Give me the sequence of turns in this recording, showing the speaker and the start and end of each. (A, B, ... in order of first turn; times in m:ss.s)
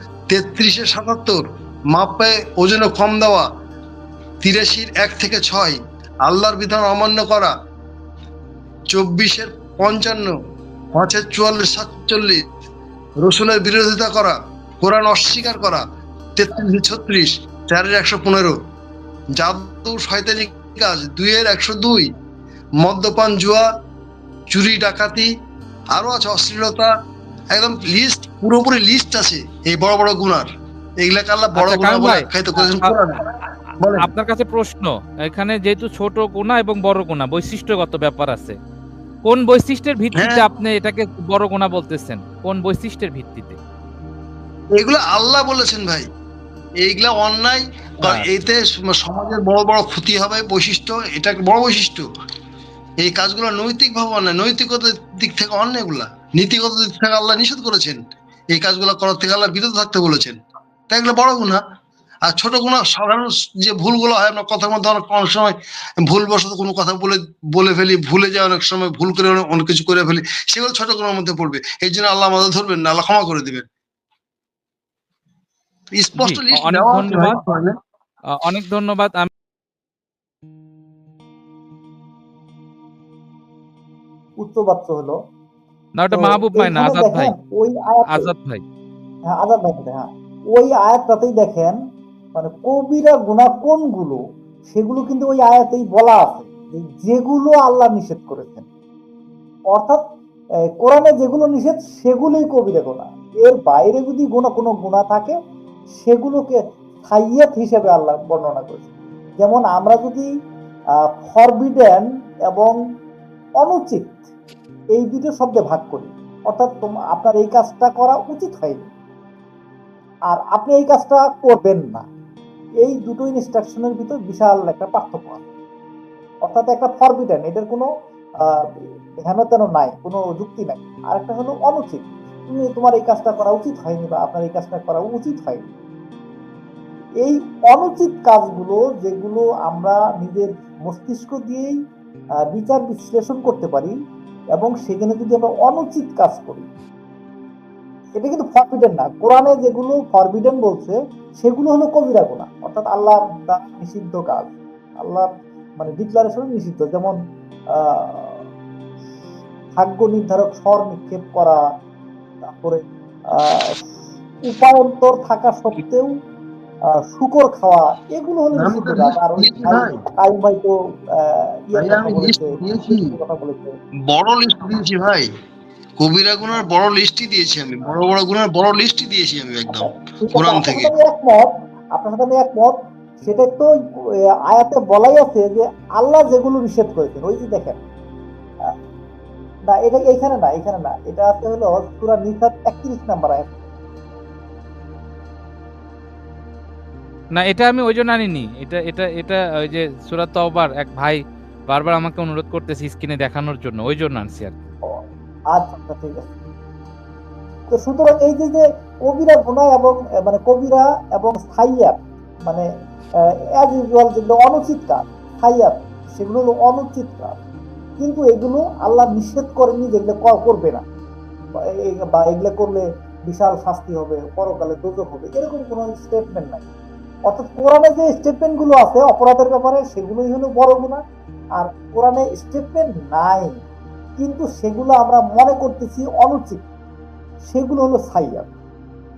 0:00.3-0:03.5 A
0:04.4-0:07.5 A
0:08.9-0:10.3 A
0:10.9-0:12.4 A
0:13.2-0:15.8 A
0:16.4-0:18.6 A
0:19.4-0:22.1 A
0:22.8-0:23.6 A
0:24.5-0:25.3 A
0:25.9-0:26.9 A
0:27.5-0:30.5 A
0:31.0-0:33.2 A
0:31.6-0:33.0 B
0:33.8-0:34.1 A
0:34.0-0:38.6 B
0:39.2-0:43.6 B
0:40.2-0:40.4 A
0:44.8-0:46.1 A
0:46.8-0:52.0 A
0:53.0-0:58.0 A
0:58.5-1:00.4 A
1:00.9-1:01.6 A
1:02.3-1:13.6 A
1:15.9-1:17.7 A
1:16.2-1:17.4 B
1:18.3-1:19.3 B
1:24.4-1:25.2 C
1:26.0-1:27.3 B
1:26.1-1:28.3 C
1:28.1-1:28.6 B
1:29.3-1:31.8 C
1:32.4-1:38.7 C
1:39.7-1:40.0 C
1:40.8-1:45.4 C
1:46.0-1:48.9 C
1:49.4-1:50.3 C
1:51.2-1:52.8 C
1:53.6-1:54.2 C
1:54.9-1:58.9 C
2:00.3-2:02.1 C
2:02.8-2:05.4 C
2:06.5-2:07.9 C
2:08.4-2:15.7 C
2:17.2-2:21.8 C
2:22.5-2:23.9 C
2:24.6-2:26.7 C
2:28.2-2:37.2 C
2:37.8-2:38.4 C
2:39.8-2:41.6 C
2:42.4-2:43.8 C
2:44.5-2:46.1 C
2:46.9-2:53.8 C
2:48.6-2:50.0 A
2:51.8-2:53.1 A
2:54.1-2:55.3 A
2:56.0-3:00.9 A
2:59.7-3:03.7 C
3:04.5-3:07.8 C
3:09.7-3:13.6 C
3:17.3-3:24.6 B
3:24.9-3:26.4 C
3:27.7-3:32.7 C
3:33.6-3:37.4 C
3:38.0-3:40.8 C
3:41.9-3:46.6 C
3:47.3-3:51.0 C
3:51.6-3:53.6 C
3:54.2-3:56.6 C
3:57.5-3:58.5 C